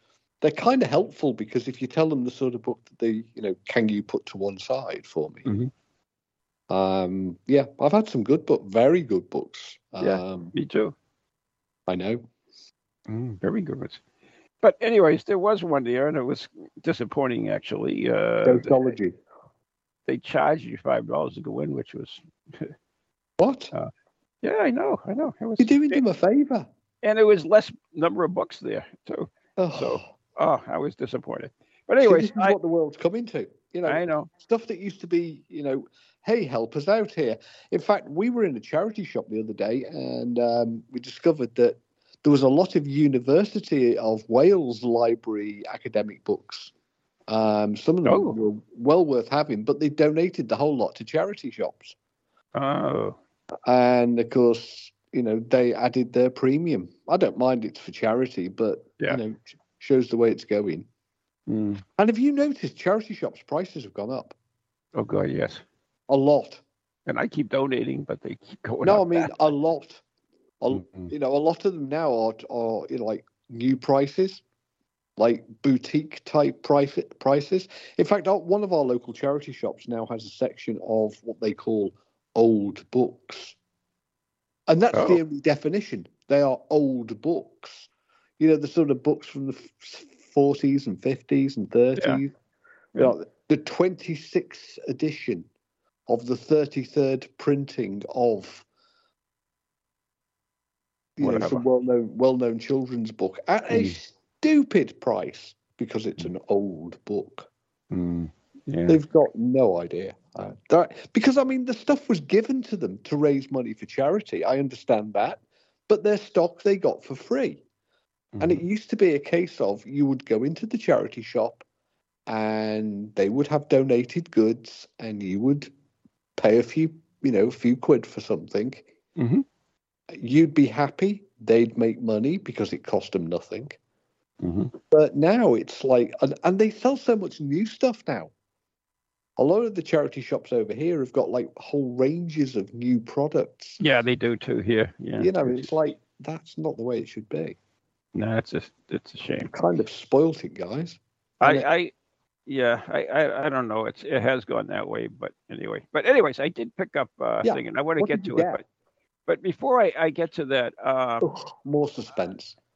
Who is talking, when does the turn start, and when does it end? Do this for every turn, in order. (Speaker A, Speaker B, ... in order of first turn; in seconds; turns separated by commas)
Speaker A: 0.4-5.5, Speaker B: 5.5-5.7, Speaker A: 6.7-10.5, Speaker B: 10.0-10.9, Speaker A: 11.9-12.2, Speaker B: 13.1-14.0, Speaker B: 14.6-18.8, Speaker A: 18.4-19.2, Speaker B: 20.1-22.7, Speaker A: 23.4-23.7, Speaker B: 24.4-26.0, Speaker A: 25.6-26.7, Speaker B: 27.0-32.5, Speaker A: 29.6-30.1, Speaker A: 32.0-46.7, Speaker B: 33.9-34.3, Speaker A: 47.3-52.0, Speaker B: 48.0-48.4, Speaker B: 52.5-53.1, Speaker A: 53.6-60.9, Speaker B: 61.5-61.8, Speaker A: 62.0-64.3, Speaker B: 64.9-65.6, Speaker A: 66.1-66.6, Speaker B: 67.1-69.3, Speaker A: 68.8-70.0, Speaker A: 70.6-74.4, Speaker B: 70.7-71.1, Speaker A: 75.2-83.5, Speaker A: 84.7-92.3, Speaker B: 84.9-85.2, Speaker A: 93.0-95.5, Speaker A: 96.1-98.7, Speaker A: 101.2-107.5, Speaker B: 101.2-101.6, Speaker B: 103.7-104.0, Speaker B: 107.9-109.0, Speaker A: 108.9-117.6, Speaker B: 118.3-118.6, Speaker A: 118.4-121.6, Speaker A: 122.3-125.7, Speaker A: 126.4-128.9, Speaker B: 129.2-129.4, Speaker A: 130.1-133.8, Speaker B: 134.4-134.7, Speaker A: 134.9-138.3, Speaker A: 139.4-143.8, Speaker B: 143.8-145.7, Speaker A: 145.2-147.6, Speaker B: 148.1-149.5, Speaker A: 149.4-151.7, Speaker B: 151.4-151.9, Speaker B: 152.5-158.6, Speaker A: 157.4-158.6, Speaker B: 159.3-161.3, Speaker A: 161.2-162.6